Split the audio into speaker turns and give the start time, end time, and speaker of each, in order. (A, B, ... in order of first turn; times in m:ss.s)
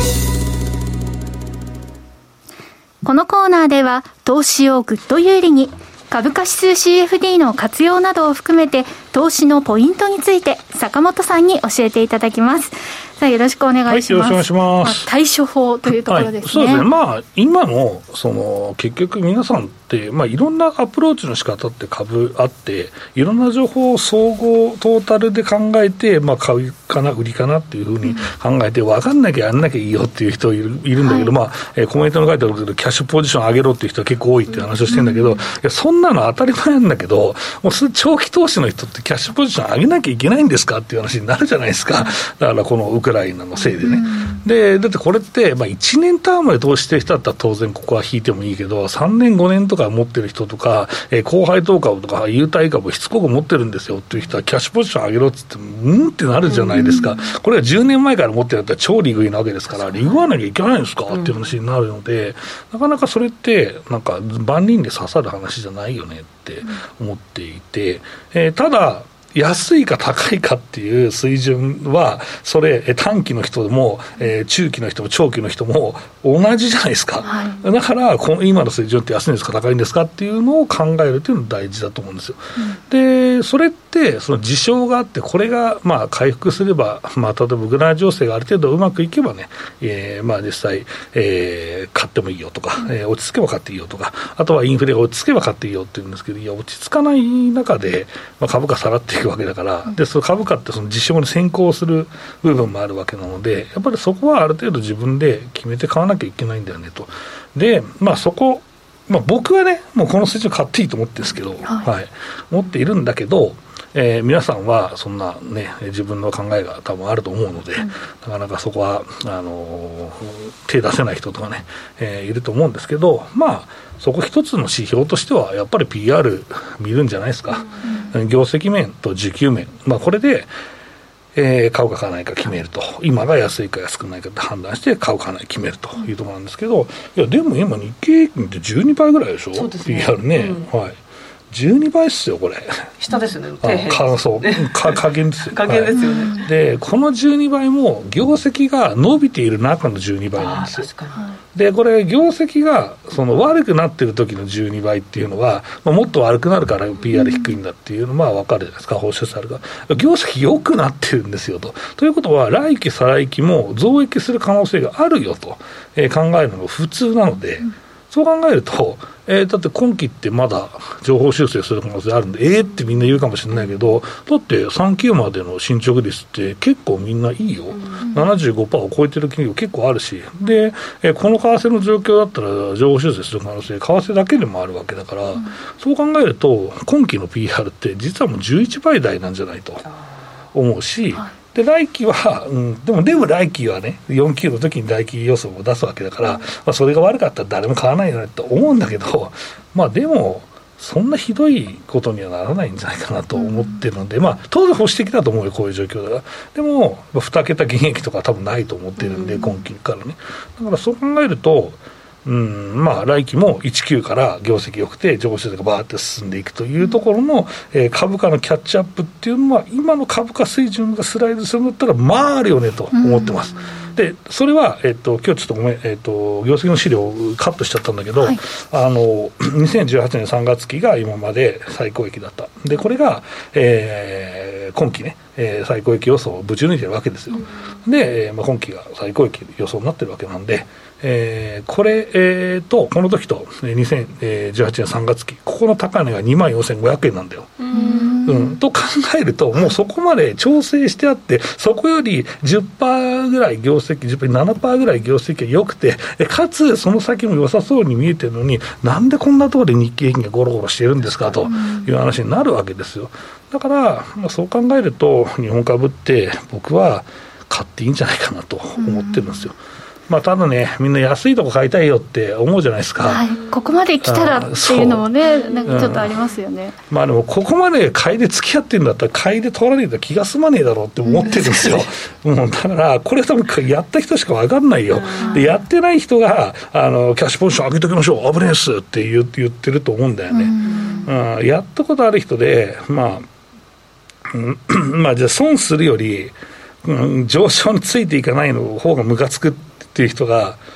0:03.0-0:16.8 A
0:13.9-0:15.1 B
0:16.1-2:10.5 B
0:28.0-0:28.3 A
0:31.0-0:31.3 A
0:34.9-0:35.4 A
0:43.8-0:44.4 A
0:56.5-0:56.9 C
0:56.8-0:57.3 A
1:01.1-1:01.5 C
1:17.2-1:17.6 A
2:07.8-2:08.1 A
2:11.4-2:21.0 B
2:19.5-2:20.7 C
2:21.5-2:22.9 B
2:23.0-2:26.5 C
2:23.6-2:30.9 B
2:25.9-2:26.4 A
2:30.4-2:31.2 C
2:31.5-3:09.8 B
2:37.1-2:37.5 A
2:57.7-2:58.0 C
2:58.0-2:58.3 A
3:10.5-4:29.6 B
3:23.4-3:23.8 A
3:29.0-3:29.5 C
3:42.9-3:43.4 A
4:07.6-4:08.2 C
4:07.7-4:08.6 A
4:21.1-4:21.5 C
4:21.5-4:21.9 A
4:28.8-4:29.5 A
4:30.1-4:33.2 B
4:33.0-4:36.8 A
4:33.3-4:33.8 C
4:34.0-4:35.1 B
4:35.2-4:36.3 C
4:35.7-4:36.2 B
4:36.9-4:53.3 B
4:41.0-4:41.3 A
4:41.3-4:41.8 C
4:44.9-4:45.6 C
4:45.2-4:45.5 A
4:50.3-4:51.1 A
4:50.6-4:51.1 C
4:54.3-5:00.6 B